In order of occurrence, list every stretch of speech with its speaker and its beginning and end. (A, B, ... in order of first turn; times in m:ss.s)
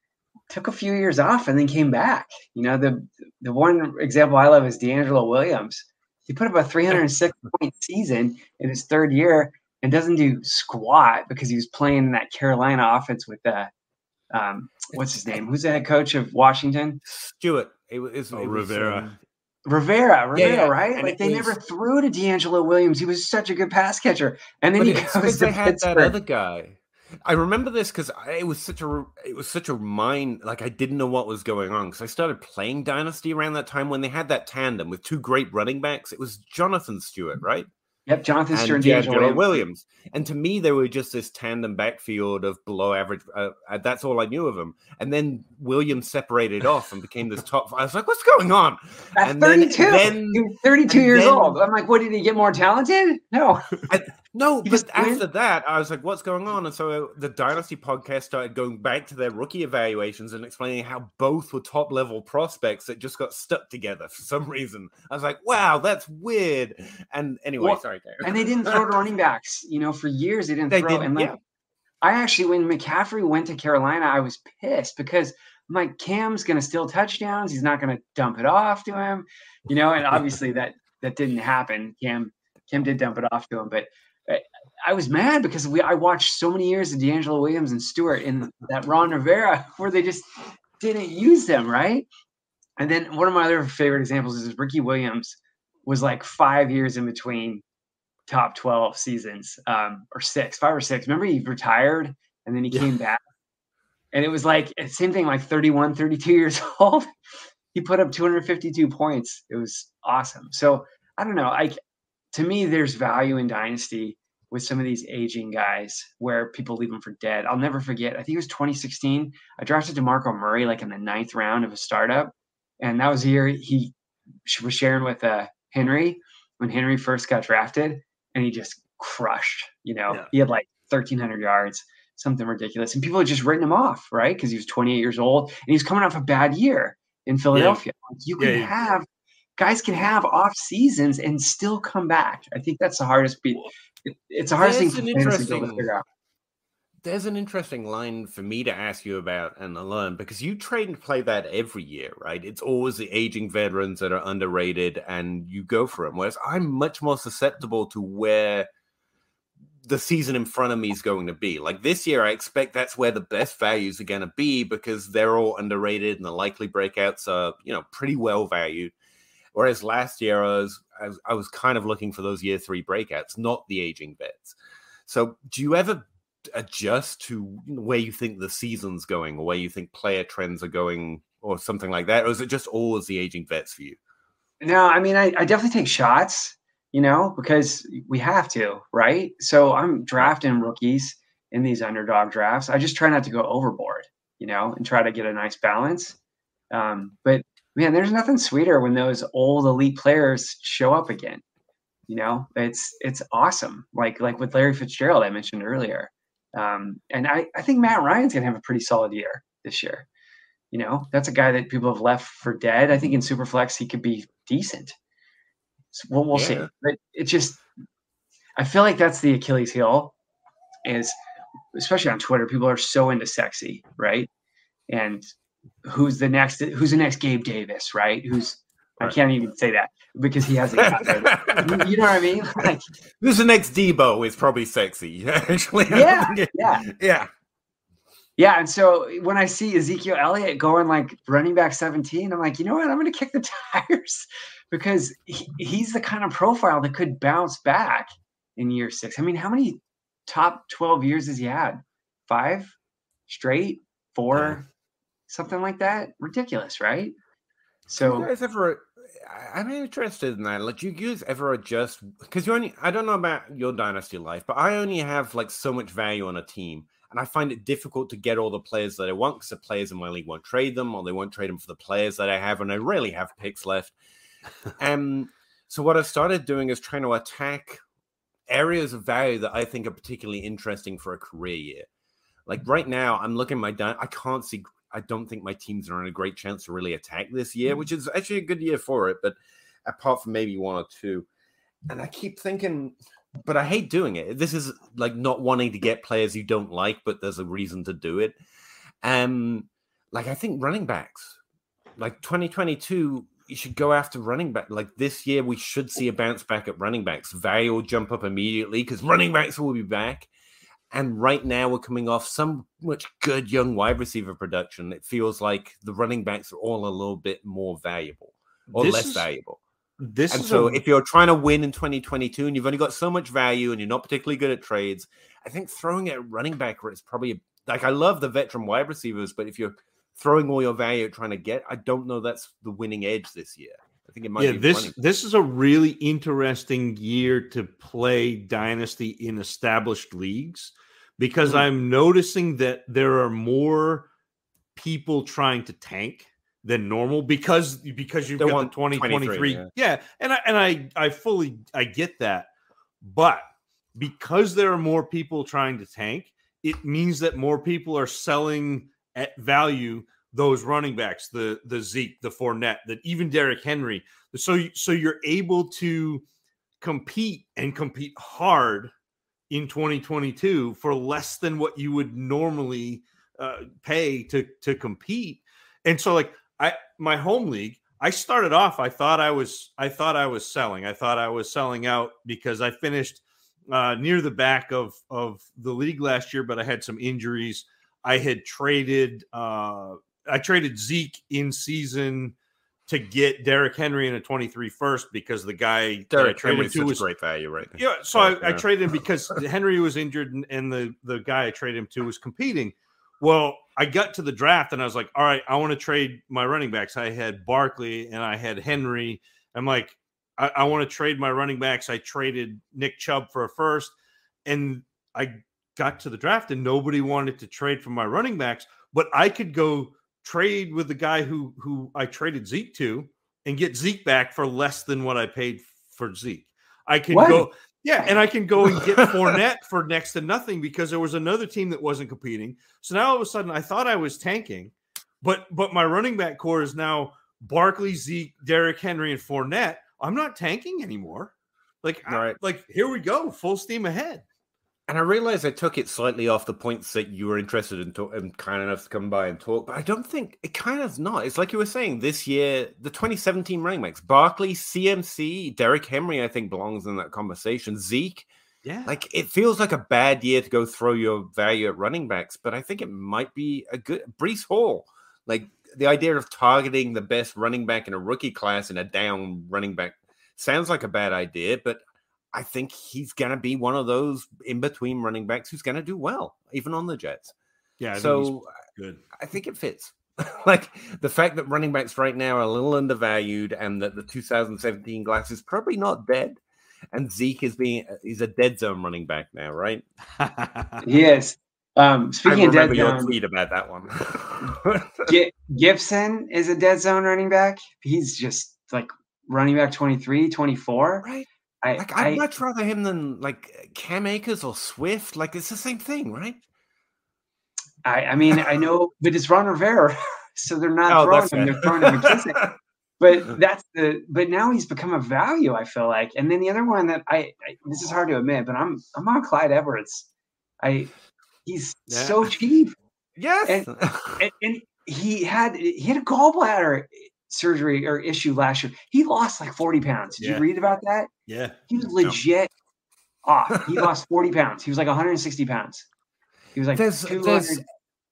0:00.5-0:13.7 A
0:14.3-0:17.0 A
0:17.0-0:19.2 B
0:18.3-0:19.1 C
0:19.7-0:26.1 A
0:20.3-0:21.6 B
0:24.8-0:37.7 B
0:38.1-0:39.6 A
0:38.5-0:51.6 B
0:49.2-0:53.8 A
0:53.9-1:08.8 B
0:54.6-0:55.2 A
1:07.6-1:11.4 A
1:10.7-1:11.4 B
1:12.0-1:32.1 A
1:32.8-1:37.6 A
1:38.3-1:43.2 A
1:44.1-1:47.1 A
1:47.7-1:51.8 A
1:52.3-2:03.9 A
2:04.5-2:19.1 A
2:17.5-2:17.8 C
2:18.4-2:18.7 C
2:19.6-2:26.0 A
2:24.6-2:25.9 B
2:27.0-2:38.7 B
2:39.9-2:48.9 B
2:49.5-2:54.6 B
2:55.1-3:04.0 B
3:04.6-3:16.2 A
3:16.7-3:21.4 A
3:22.1-3:30.1 A
3:30.7-3:35.0 A
3:35.9-3:37.6 A
3:36.3-3:36.7 B
3:38.6-3:40.1 A
3:40.8-3:41.1 A
3:41.7-3:44.3 A
3:44.9-3:45.2 A
3:45.8-3:52.9 A
3:50.8-3:51.9 B
3:53.2-3:57.3 B
3:55.9-3:56.9 A
3:58.4-4:12.7 A
4:13.3-4:14.6 A
4:15.3-4:17.1 A
4:17.9-4:18.3 A
4:18.0-4:34.0 B
4:34.8-4:37.8 B
4:38.5-4:41.9 B
4:42.5-4:51.3 B
4:51.9-4:58.4 B
4:59.0-5:01.4 B
5:02.0-5:10.3 B
5:10.9-5:19.6 B
5:18.7-5:19.2 C
5:20.0-5:20.8 C
5:20.3-5:35.0 B
5:34.4-5:44.1 C
5:44.8-5:52.5 C
5:48.4-5:49.7 B
5:53.0-5:53.4 C
5:54.0-6:06.2 C
6:06.8-6:08.9 C
6:09.5-6:32.4 C
6:32.9-6:37.0 C
6:36.1-6:38.7 B
6:37.8-6:53.9 C
6:54.5-7:21.3 C
7:07.1-7:07.5 A
7:08.7-7:09.2 B
7:21.8-7:24.2 C
7:22.1-7:22.4 B
7:24.9-7:38.3 B
7:38.6-7:38.9 C
7:38.9-7:51.8 B
7:52.3-7:57.3 B
7:57.8-7:59.0 C
7:58.0-7:58.5 B
7:59.2-8:06.4 B
8:06.9-8:09.8 B
8:10.2-8:10.8 C
8:10.8-8:13.1 A
8:12.2-8:15.2 B
8:15.1-8:21.1 A
8:21.6-8:22.2 A
8:21.8-8:26.4 B
8:27.8-8:32.5 A
8:30.9-8:32.5 B
8:33.0-8:40.1 A
8:40.6-8:40.9 A
8:41.5-8:42.7 A
8:41.9-8:42.2 C
8:43.2-8:44.3 B
8:43.5-8:51.1 A
8:50.2-8:50.4 C
8:51.3-8:51.6 C
8:51.7-8:52.5 A
8:53.2-8:55.9 A
8:56.5-8:57.6 A
8:56.7-8:57.6 B